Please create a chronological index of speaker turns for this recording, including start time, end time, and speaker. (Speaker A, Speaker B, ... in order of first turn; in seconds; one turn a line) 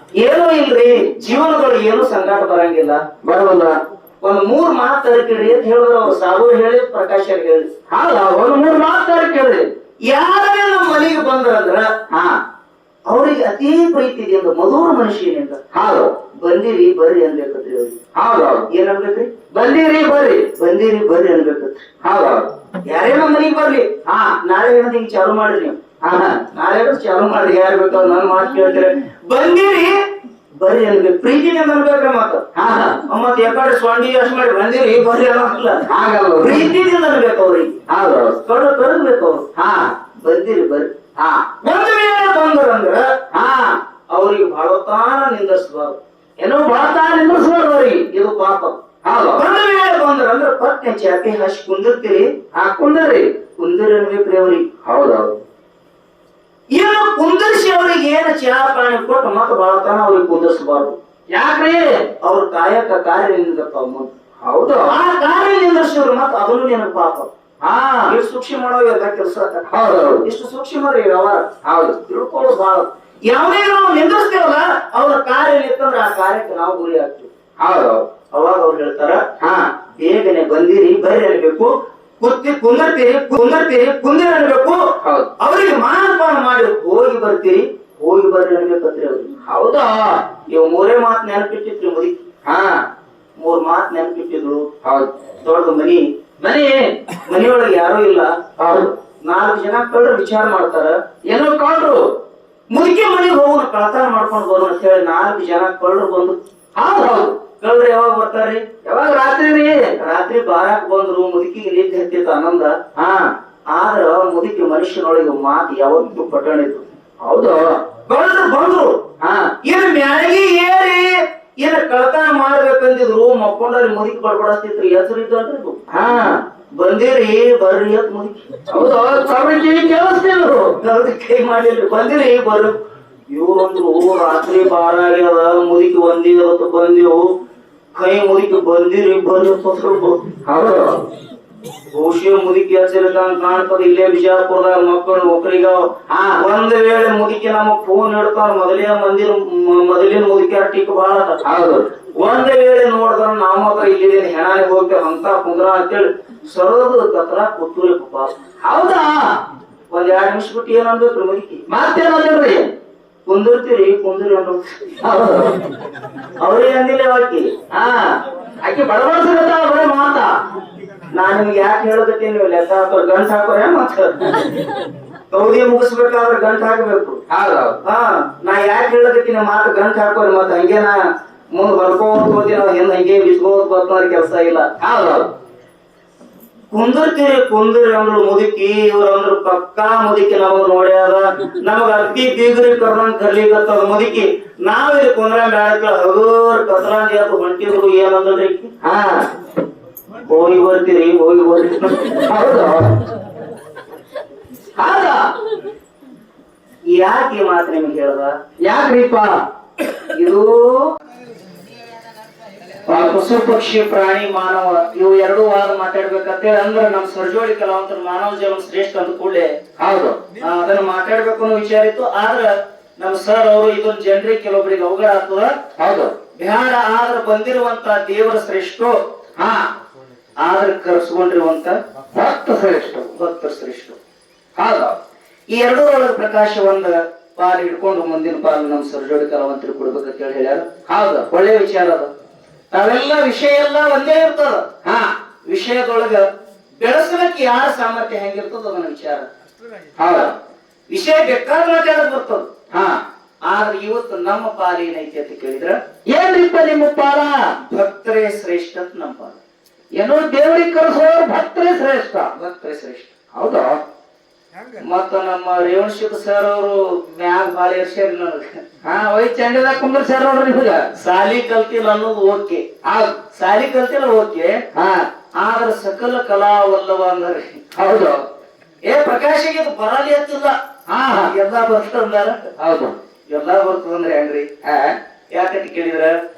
Speaker A: 0.2-3.0
Speaker B: 3.2-3.8
Speaker A: 4.2-7.7
Speaker B: 7.9-9.7
Speaker A: 10.0-11.9
Speaker B: 12.1-12.4
Speaker A: 13.1-15.6
Speaker B: 15.7-16.1
Speaker A: 16.4-18.0
Speaker B: 18.1-18.7
Speaker A: 18.7-19.4
Speaker B: 19.5-20.5
Speaker A: 20.5-21.9
Speaker B: 22.0-22.5
Speaker A: 22.8-23.9
Speaker B: 24.1-24.4
Speaker A: 24.4-25.8
Speaker B: 26.0-26.4
Speaker A: 26.5-29.9
Speaker A: 30.6-32.4
Speaker B: 32.5-33.0
Speaker A: 33.1-35.9
Speaker B: 35.9-36.8
Speaker A: 36.4-37.8
Speaker B: 37.9-38.4
Speaker A: 38.4-39.5
Speaker B: 39.5-39.9
Speaker A: 40.2-40.9
Speaker B: 41.2-41.5
Speaker A: 41.6-43.1
Speaker B: 43.3-43.8
Speaker A: 44.1-46.0
Speaker B: 46.4-48.0
Speaker A: 48.1-48.8
Speaker B: 49.0-49.4
Speaker A: 49.3-52.3
Speaker B: 52.5-53.3
Speaker A: 53.6-54.7
Speaker B: 54.8-55.4
Speaker A: 56.7-61.0
Speaker B: 61.3-62.1
Speaker A: 62.2-64.1
Speaker B: 64.4-64.9
Speaker A: 64.9-67.3
Speaker B: 67.6-68.2
Speaker A: 68.1-69.7
Speaker B: 69.7-70.2
Speaker A: 70.2-71.5
Speaker B: 71.6-72.0
Speaker A: 72.0-77.3
Speaker B: 77.6-78.0
Speaker A: 78.3-79.2
Speaker B: 79.4-79.7
Speaker A: 79.9-89.3
Speaker B: 85.0-85.3
Speaker B: 89.5-90.2
Speaker A: 90.5-92.3
Speaker B: 92.4-92.9
Speaker A: 93.4-94.7
Speaker B: 94.8-95.1
Speaker A: 95.4-96.0
Speaker B: 96.4-96.9
Speaker A: 97.2-101.0
Speaker B: 98.6-98.9
Speaker B: 101.3-102.0
Speaker A: 102.7-106.3
Speaker B: 106.8-107.4
Speaker A: 107.6-108.6
Speaker B: 108.8-109.9
Speaker A: 110.0-112.7
Speaker B: 113.0-113.3
Speaker A: 113.7-116.8
Speaker B: 117.2-117.8
Speaker A: 118.0-119.0
Speaker B: 119.2-119.5
Speaker A: 119.6-125.8
Speaker B: 125.9-126.4
Speaker A: 126.7-128.5
Speaker B: 128.7-130.7
Speaker A: 130.8-132.8
Speaker A: 133.3-137.3
Speaker A: 137.9-140.3
Speaker B: 140.4-141.0
Speaker A: 141.9-151.4
Speaker B: 146.1-146.4
Speaker B: 151.4-151.8
Speaker A: 152.2-158.3
Speaker B: 158.6-159.3
Speaker A: 159.9-161.6
Speaker B: 161.7-162.7
Speaker A: 163.2-165.0
Speaker B: 165.0-165.6
Speaker A: 166.4-167.5
Speaker B: 167.7-170.3
Speaker A: 171.1-174.3
Speaker A: 175.3-177.2
Speaker B: 177.3-177.8
Speaker A: 177.8-181.0
Speaker A: 181.5-184.7
Speaker B: 184.8-185.3
Speaker A: 186.7-198.7
Speaker B: 198.8-199.3
Speaker A: 200.2-202.2
Speaker B: 202.3-203.0
Speaker B: 204.8-205.3
Speaker A: 206.9-208.3
Speaker B: 208.6-209.4
Speaker A: 210.1-210.9
Speaker A: 212.8-219.5
Speaker B: 212.9-213.2
Speaker B: 219.8-220.2
Speaker A: 220.4-225.5
Speaker B: 225.8-226.1
Speaker A: 226.4-228.9
Speaker B: 229.4-229.7
Speaker A: 230.4-231.8
Speaker B: 232.1-233.1
Speaker A: 233.1-234.0
Speaker B: 234.6-234.9
Speaker A: 235.5-240.7
Speaker B: 240.9-241.3
Speaker A: 241.3-242.1
Speaker A: 242.7-244.7
Speaker B: 244.8-245.1
Speaker A: 245.5-246.2
Speaker A: 246.8-249.2
Speaker B: 250.0-250.3
Speaker A: 250.9-252.5
Speaker B: 252.7-253.0
Speaker A: 253.4-255.8
Speaker B: 256.1-257.5
Speaker A: 257.6-259.4
Speaker B: 259.9-262.3
Speaker A: 262.3-263.1
Speaker B: 263.3-263.7
Speaker A: 264.8-268.6
Speaker B: 268.8-270.9
Speaker A: 271.0-272.6
Speaker B: 272.8-273.1
Speaker A: 273.3-274.6
Speaker B: 274.7-275.1
Speaker A: 275.4-277.6
Speaker B: 277.7-278.2
Speaker A: 278.8-280.5
Speaker B: 280.9-281.3
Speaker A: 281.1-282.5
Speaker B: 282.6-283.0
Speaker A: 283.3-284.5
Speaker B: 284.6-285.0
Speaker A: 285.3-286.1